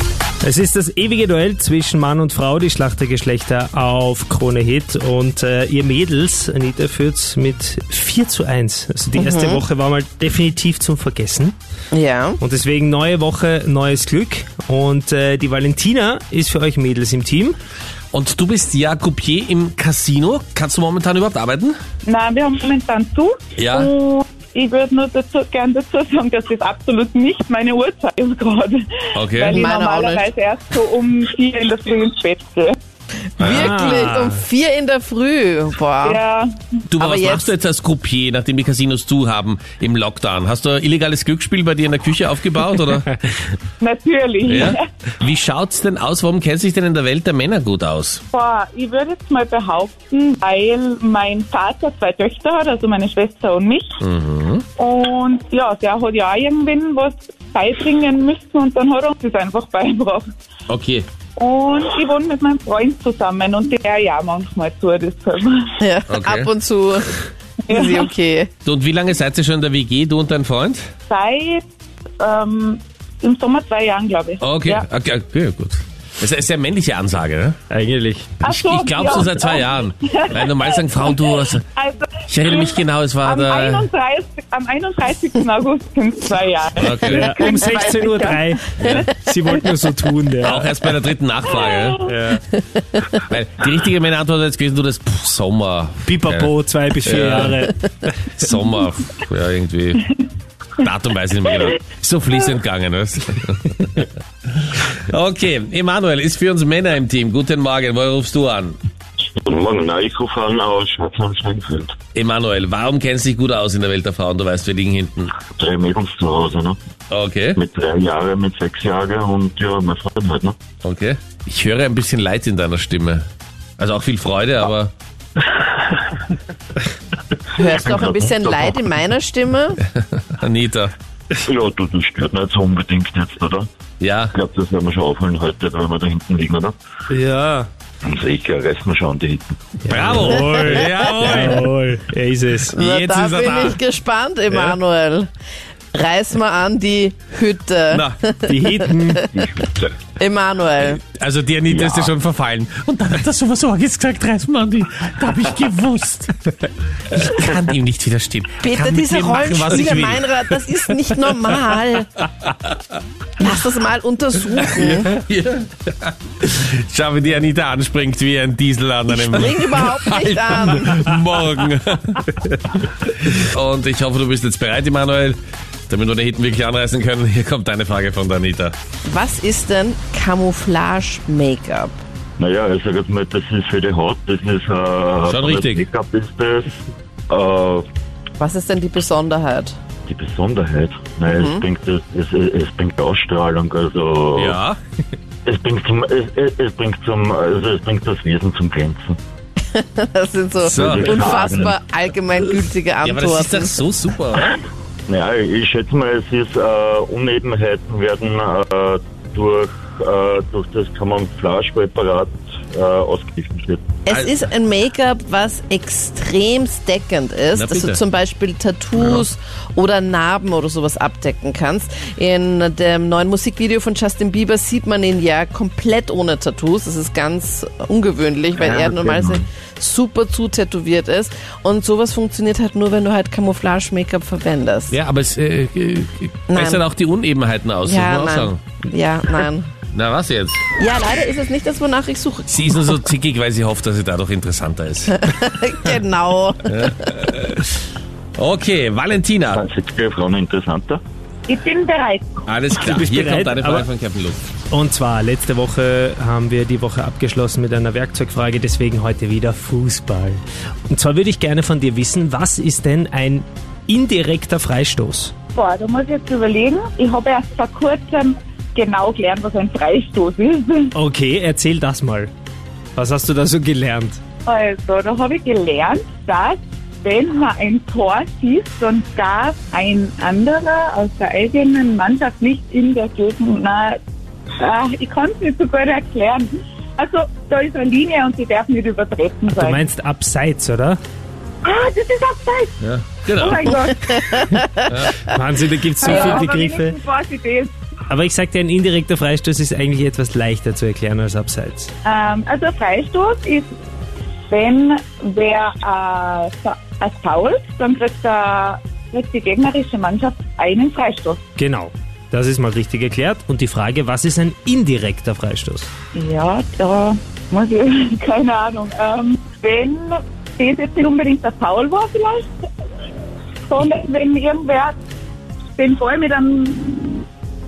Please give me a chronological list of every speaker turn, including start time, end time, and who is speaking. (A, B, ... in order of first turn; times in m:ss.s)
0:00.4-0:11.6 A
0:09.2-0:09.6 B
0:11.9-0:12.4 B
0:12.4-0:17.6 A
0:18.1-0:21.8 C
0:22.0-0:32.8 D
0:23.6-0:23.9 C
0:29.2-0:29.6 C
0:29.5-0:30.3 B
0:33.4-0:36.2 B
0:33.4-0:33.9 C
0:33.4-0:34.4 A
0:36.0-0:36.6 D
0:36.9-0:43.2 C
0:37.0-0:37.5 B
0:43.8-0:44.8 D
0:44.5-0:48.2 C
0:48.3-0:54.0 D
0:54.0-0:54.7 C
0:54.8-1:00.3 D
1:00.7-1:01.1 C
1:01.4-1:05.7 D
1:05.8-1:08.5 B
1:06.1-1:06.5 C
1:07.7-1:08.1 D
1:08.6-1:10.9 C
1:11.1-1:11.7 D
1:12.2-1:14.8 D
1:14.4-1:17.6 C
1:17.7-1:18.4 A
1:18.4-1:21.2 D
1:18.4-1:21.6 C
1:21.8-1:28.4 D
1:22.3-1:23.9 C
1:26.8-1:27.4 C
1:27.1-1:30.7 A
1:28.8-1:29.1 C
1:30.4-1:32.1 C
1:31.7-1:32.1 D
1:32.0-1:32.4 A
1:33.2-1:36.5 C
1:36.0-1:38.4 A
1:37.0-1:37.7 C
1:38.4-1:40.1 C
1:40.8-1:48.8 C
1:49.4-1:52.0 E
1:52.2-1:55.4 C
1:55.6-1:56.8 E
1:57.1-1:57.6 C
1:57.6-2:00.6 E
2:00.8-2:03.2 C
2:03.8-2:04.9 C
2:05.5-2:06.1 E
2:07.5-2:08.6 E
2:07.6-2:09.8 B
2:10.2-2:10.9 C
2:11.4-2:13.7 E
2:14.0-2:14.4 C
2:14.3-2:16.8 E
2:17.1-2:17.7 A
2:18.0-2:19.5 E
2:19.8-2:22.8 A
2:19.9-2:21.7 C
2:20.2-2:21.5 B
2:22.7-2:25.3 B
2:22.7-2:23.8 C
2:24.5-2:24.8 C
2:25.9-2:29.5 B
2:28.5-2:29.3 A
2:29.3-2:30.0 E
2:30.2-2:31.0 B
2:30.8-2:36.5 C
2:31.7-2:32.1 E
2:37.1-2:40.6 C
2:38.6-2:42.1 B
2:42.4-2:42.7 C
2:43.4-2:45.1 B
2:44.8-2:52.3 C
2:49.1-2:51.1 B
2:53.0-2:58.8 C
2:59.1-3:02.0 B
3:02.4-3:06.8 E
3:05.2-3:05.9 C
3:07.3-3:07.9 E
3:08.4-3:09.8 B
3:10.1-3:14.6 E
3:11.3-3:11.6 B
3:14.4-3:14.8 C
3:15.5-3:19.2 E
3:19.7-3:23.8 B
3:20.6-3:21.3 C
3:20.7-3:21.8 E
3:23.0-3:24.6 C
3:25.1-3:33.9 E
3:34.0-3:55.0 B
3:34.1-3:34.4 C
3:37.5-3:38.0 C
3:39.0-3:39.2 C
3:48.6-3:49.4 E
3:54.9-3:58.6 C
3:56.5-3:56.8 B
3:57.8-3:59.7 B
3:59.9-4:00.6 C
4:00.8-4:02.9 B
4:02.5-4:05.2 C
4:05.1-4:07.0 B
4:06.7-4:07.8 C
4:08.4-4:09.6 C
4:09.5-4:11.0 E
4:11.5-4:12.4 D
4:12.5-4:14.5 C
4:12.8-4:13.9 A
4:14.7-4:25.3 A
4:25.6-4:30.9 D
4:31.0-4:32.3 A
4:33.0-4:34.2 A
4:34.5-4:44.0 D
4:44.6-4:49.8 D
4:49.5-4:51.0 A
4:51.6-4:52.8 D
4:52.8-4:53.9 C
4:53.4-4:54.5 D
4:53.8-4:54.9 B
4:54.9-4:55.3 C
4:55.3-4:57.0 A
4:56.0-4:57.7 D
4:58.1-5:01.9 A
5:02.0-5:03.7 D
5:04.5-5:11.4 D
5:11.6-5:15.9 A
5:16.1-5:22.5 D
5:23.7-5:25.0 D
5:25.8-5:27.3 D